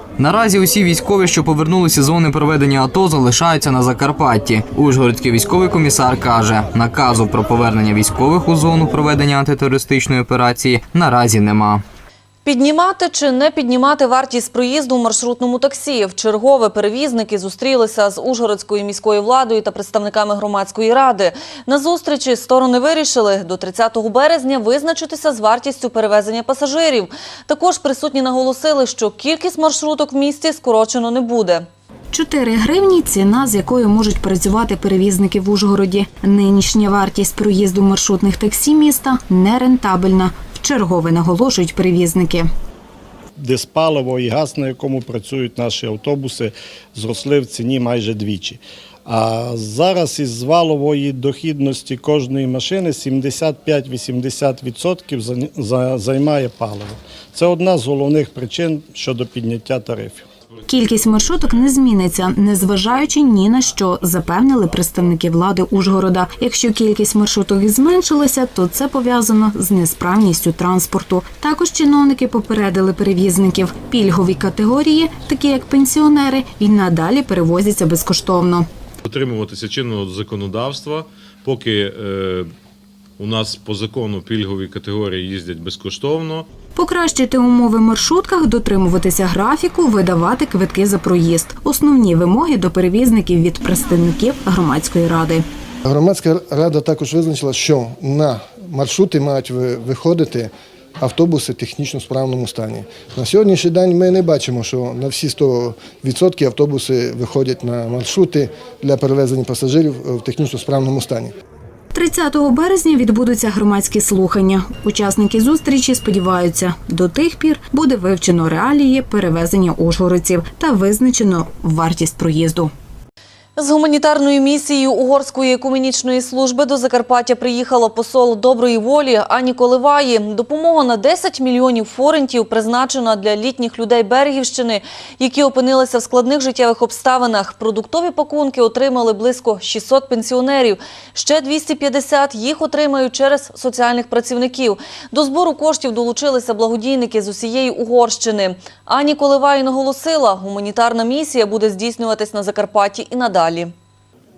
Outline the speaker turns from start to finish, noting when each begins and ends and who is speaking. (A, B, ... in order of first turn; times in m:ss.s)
0:00.2-0:11.8 A
0:12.4-0:31.7 B
0:32.1-0:42.5 C
0:43.4-1:00.2 D
1:00.7-1:18.6 C
1:19.1-1:22.4 E
1:23.2-1:26.4 E
1:26.8-1:35.4 C
1:35.9-1:51.3 F
1:52.0-2:02.7 C
2:03.6-2:33.7 B